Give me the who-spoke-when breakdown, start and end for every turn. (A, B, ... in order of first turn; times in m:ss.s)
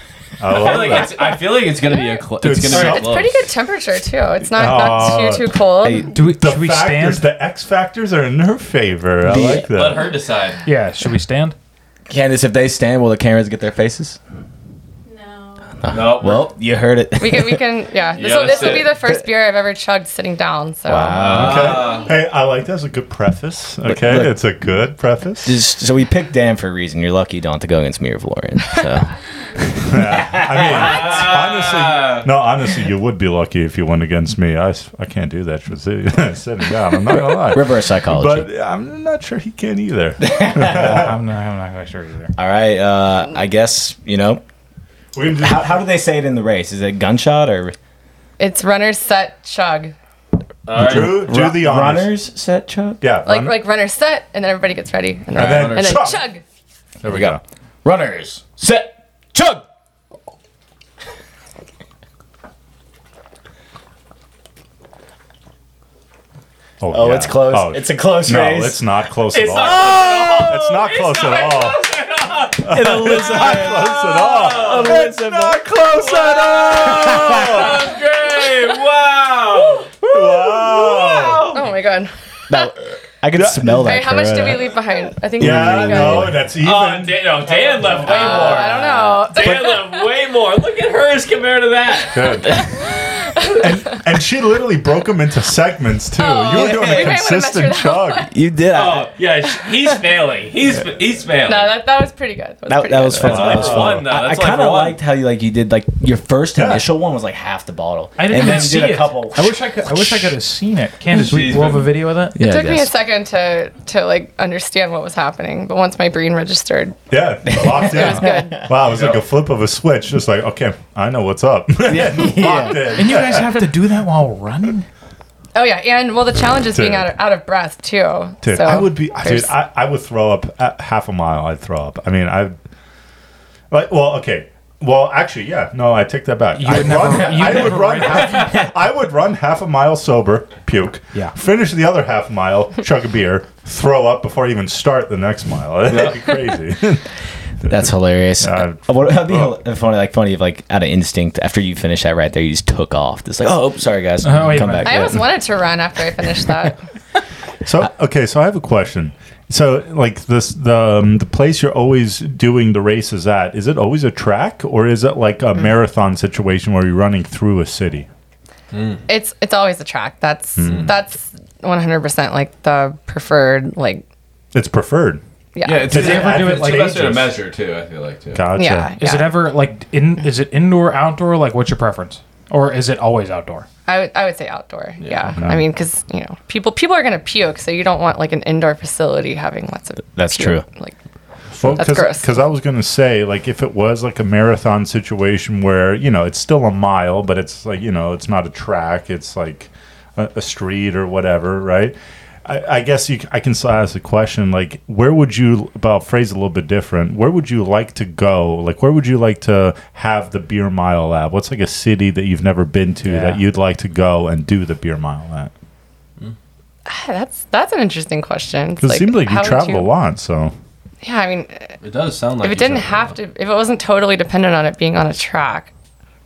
0:00.4-0:01.4 A
0:00.5-0:03.4 B
0:02.4-0:03.5 A
0:02.7-0:06.1 C
0:04.5-0:05.5 A
0:05.8-0:06.1 D
0:06.1-0:07.3 E
0:06.2-0:10.1 A
0:09.2-0:09.7 D
0:09.3-0:10.6 B
0:10.6-0:11.5 E
0:12.1-0:14.2 D
0:15.8-0:17.6 D
0:15.9-0:16.4 B
0:17.2-0:21.3 C
0:18.1-0:18.9 B
0:20.8-0:22.0 D
0:21.0-0:25.6 A
0:21.1-0:22.1 B
0:23.8-0:24.4 D
0:25.4-0:31.0 D
0:29.8-0:41.2 A
0:30.6-0:32.3 B
0:37.1-0:38.5 D
0:40.2-0:41.1 D
0:40.6-0:42.3 E
0:42.4-0:44.4 D
0:45.1-0:45.8 A
0:45.4-0:47.8 D
0:48.4-0:49.9 C
0:50.7-0:51.2 B
0:50.8-0:52.1 A
0:50.8-0:53.0 D
0:53.0-0:53.6 A
0:53.2-0:56.4 C
0:55.3-0:56.2 A
0:55.4-0:56.1 B
0:57.0-0:57.4 A
0:57.1-0:59.6 D
1:06.8-1:11.8 A
1:06.9-1:08.8 D
1:09.3-1:12.7 B
1:12.6-1:17.8 A
1:12.6-1:15.8 D
1:13.2-1:14.9 B
1:16.0-1:20.0 B
1:16.3-1:17.7 D
1:20.0-1:21.5 A
1:20.6-1:21.6 B
1:21.5-1:22.1 C
1:22.5-1:24.7 D
1:23.4-1:23.8 A
1:23.8-1:26.3 C
1:25.4-1:26.4 D
1:25.4-1:28.8 A
1:26.6-1:32.4 B
1:28.0-1:29.8 C
1:32.1-1:32.7 A
1:32.8-1:34.0 C
1:33.6-1:38.3 A
1:36.2-1:38.3 C
1:36.6-1:37.1 D
1:38.3-1:39.1 D
1:38.7-1:41.7 B
1:41.4-1:43.7 C
1:42.7-1:50.4 D
1:43.2-1:45.0 B
1:43.2-1:44.0 A
1:46.6-1:46.8 A
1:48.2-1:52.4 E
1:51.1-1:51.9 B
1:52.3-1:52.9 D
1:52.4-1:57.0 C
1:57.1-2:03.7 A
1:57.5-1:58.6 D
1:57.6-1:58.6 C
1:58.9-1:59.2 B
2:01.8-2:03.1 D
2:02.9-2:04.9 E
2:05.5-2:09.5 C
2:06.7-2:07.1 A
2:08.4-2:12.6 A
2:13.7-2:27.1 A
2:16.5-2:18.6 E
2:17.1-2:17.7 D
2:27.6-2:35.2 D
2:28.4-2:29.5 A
2:34.2-2:35.1 E
2:34.8-2:36.8 C
2:37.6-2:48.1 A
2:48.7-2:49.0 B
2:49.1-2:54.0 C
2:50.6-2:50.9 A
2:54.5-2:55.2 A
2:55.5-2:55.9 C
2:55.6-2:58.4 B
2:55.9-2:57.3 A
2:55.9-2:57.2 E
2:58.3-2:58.9 A
2:58.5-2:59.4 C
2:59.0-3:03.6 E
3:03.9-3:10.9 C
3:05.0-3:05.4 B
3:05.4-3:05.6 A
3:10.2-3:10.6 D
3:11.6-3:35.5 A
3:11.7-3:12.3 C
3:33.0-3:33.4 E
3:36.8-3:39.9 C
3:38.8-3:40.5 A
3:41.0-3:41.8 C
3:41.8-3:43.1 B
3:42.4-3:45.7 C